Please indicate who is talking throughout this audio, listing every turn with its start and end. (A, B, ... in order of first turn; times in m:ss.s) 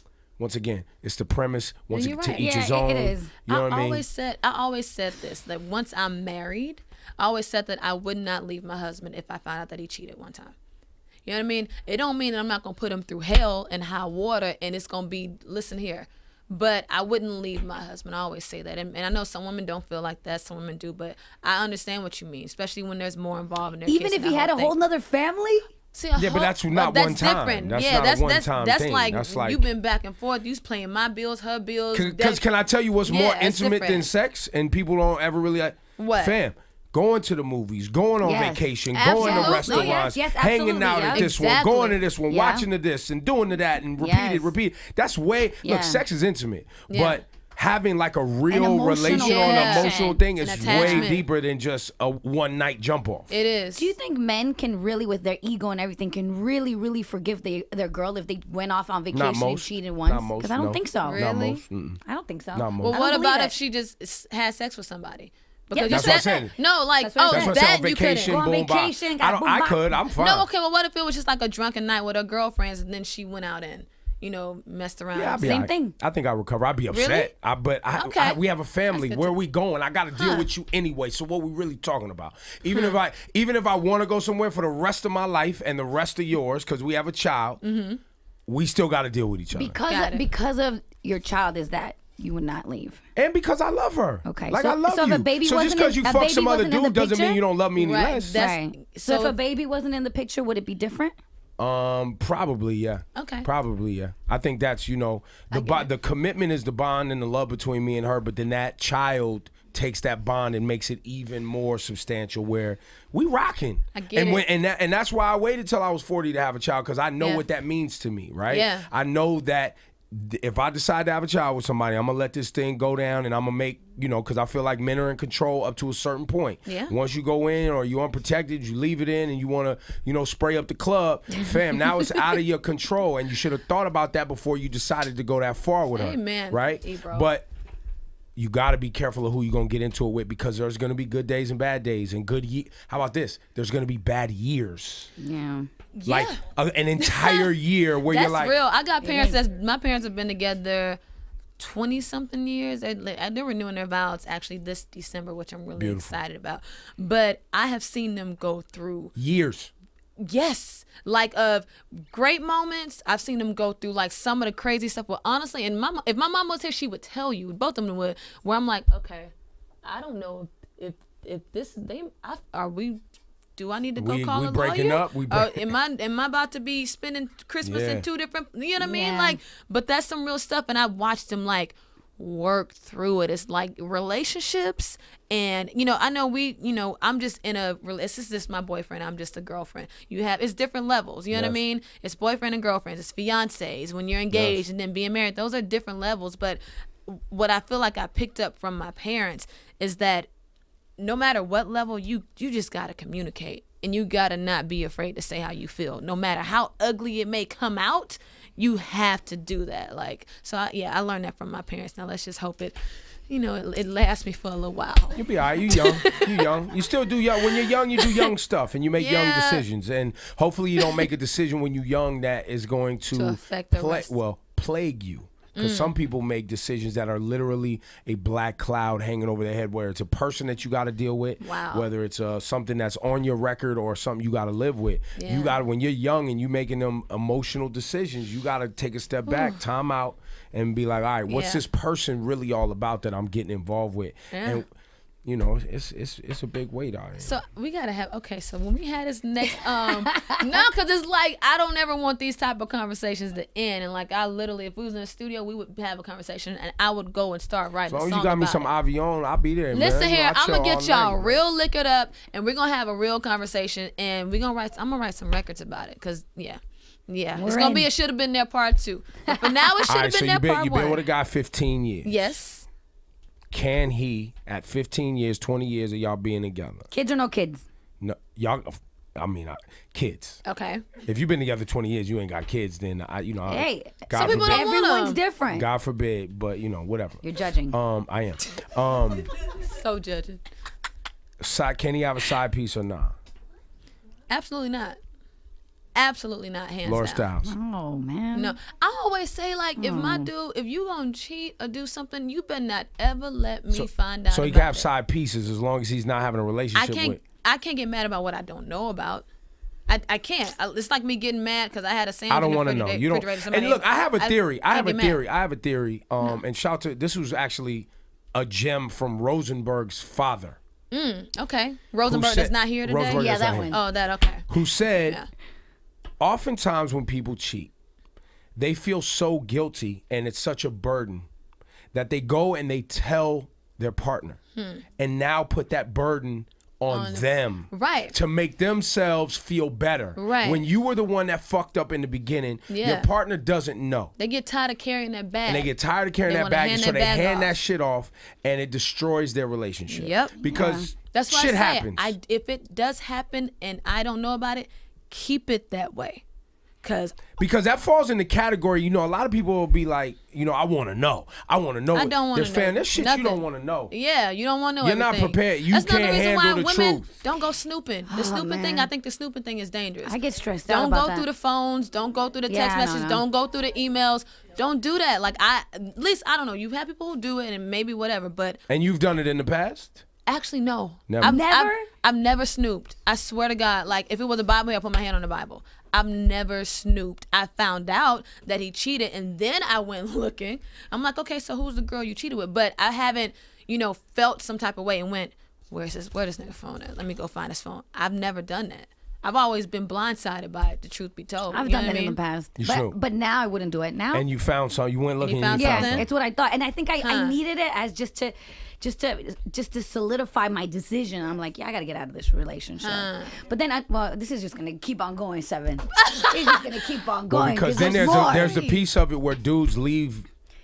0:00.4-0:04.0 A
0:01.9-0:02.7 B
0:02.4-0:03.3 C
0:03.5-0:10.5 B
0:11.2-0:24.7 B
0:23.9-0:25.7 C
0:25.9-0:32.4 B
0:26.2-0:29.6 A
0:31.9-0:53.3 A
0:33.0-0:34.1 B
0:36.0-0:36.4 B
0:38.2-0:41.3 C
0:38.9-0:40.0 B
0:41.1-0:42.0 B
0:42.3-0:42.6 C
0:44.0-0:44.5 C
0:45.6-0:46.0 C
0:46.9-0:47.2 B
0:48.5-0:51.1 C
0:49.1-0:51.3 B
0:53.3-0:53.9 B
0:53.8-1:03.5 C
0:59.1-1:02.0 A
1:01.0-1:01.6 B
1:02.5-1:03.0 A
1:02.8-1:08.4 B
1:05.7-1:06.3 C
1:05.9-1:06.5 A
1:07.0-1:07.6 C
1:07.2-1:10.5 A
1:08.2-1:10.0 C
1:10.2-1:15.5 B
1:15.1-1:27.6 A
1:15.4-1:16.0 C
1:16.9-1:17.3 B
1:18.0-1:18.4 B
1:18.9-1:19.3 B
1:20.2-1:20.5 B
1:22.7-1:23.0 B
1:27.6-1:28.0 B
1:28.5-1:29.8 A
1:29.5-1:33.0 C
1:29.9-1:30.2 B
1:33.2-1:38.4 A
1:34.2-1:37.4 C
1:37.8-1:39.3 B
1:38.3-1:41.2 C
1:41.6-2:17.4 A
1:43.2-1:43.5 B
1:45.5-1:45.8 C
1:53.9-1:54.4 B
1:58.5-1:58.9 B
2:06.6-2:06.9 B
2:11.3-2:12.3 B
2:15.9-2:17.3 B
2:18.4-2:25.1 A
2:25.2-2:25.7 C
2:26.0-2:26.4 B
2:26.1-2:28.6 A
2:27.0-2:27.5 B
2:28.1-2:31.0 B
2:29.0-2:29.4 C
2:31.6-2:39.1 B
2:35.7-2:36.2 A
2:39.2-2:39.7 A
2:40.2-2:49.3 B
2:49.8-2:53.0 B
2:53.6-3:20.3 B
2:54.0-2:55.7 A
2:57.6-2:58.0 A
2:58.8-2:59.4 C
3:11.3-3:11.6 A
3:14.3-3:14.6 A
3:21.0-3:32.8 B
3:33.3-3:36.6 B
3:35.1-4:04.7 A
3:37.4-3:38.3 B
3:39.0-3:39.6 B
3:43.1-3:44.1 B
3:45.6-3:45.9 B
3:51.4-3:51.9 B
3:55.2-3:55.6 B
3:59.3-3:59.6 B
4:01.3-4:01.6 B
4:04.3-4:04.6 B
4:05.2-4:07.4 A
4:07.2-4:18.7 B
4:09.9-4:10.6 C
4:17.9-4:21.4 A
4:19.7-4:31.0 B
4:27.3-4:27.9 C
4:29.3-4:29.7 C
4:29.9-4:32.3 A
4:32.0-4:32.7 B
4:33.5-4:36.9 A
4:36.9-4:37.6 C
4:38.0-4:40.4 A
4:40.4-4:40.9 B
4:41.0-4:44.7 A
4:43.5-4:45.6 C
4:44.2-4:45.2 B
4:45.5-4:49.3 A
4:47.2-4:47.8 C
4:49.4-4:50.4 B
4:51.4-4:53.1 A
4:54.3-4:55.0 B
4:55.9-4:57.2 B
4:56.8-4:57.5 A
4:57.4-4:58.6 C
4:58.3-5:04.9 B
4:59.8-5:00.3 C
5:03.7-5:07.2 A
5:06.7-5:09.3 B
5:09.9-5:15.2 B
5:12.3-5:20.6 A
5:20.9-5:24.5 B
5:22.0-5:23.7 A
5:23.1-5:23.8 C
5:24.5-5:25.2 A
5:26.2-5:27.7 A
5:28.6-5:31.3 A
5:31.9-5:34.4 A
5:34.6-5:34.8 B
5:35.0-5:44.1 A
5:36.9-5:38.1 B
5:40.2-5:40.6 B
5:42.7-5:43.1 B
5:44.2-5:45.7 B
5:45.4-5:52.1 A
5:46.2-5:47.5 B
5:49.9-5:56.2 B
5:50.4-5:50.9 C
5:56.8-5:57.4 B
5:57.4-6:03.9 A
6:01.9-6:18.6 B
6:04.8-6:07.1 A
6:08.1-6:08.9 C
6:10.0-6:11.2 C
6:12.5-6:13.2 C
6:18.7-6:20.0 A
6:20.3-6:42.2 B
6:21.1-6:21.4 A
6:21.2-6:21.8 C
6:41.5-6:44.2 C
6:42.6-6:42.9 A
6:44.1-6:46.0 A
6:45.2-6:46.0 B
6:45.5-6:58.6 C
6:47.0-6:47.4 B
6:52.8-6:53.4 B
6:56.0-6:56.6 B
6:57.3-7:00.2 A
6:57.7-6:58.8 B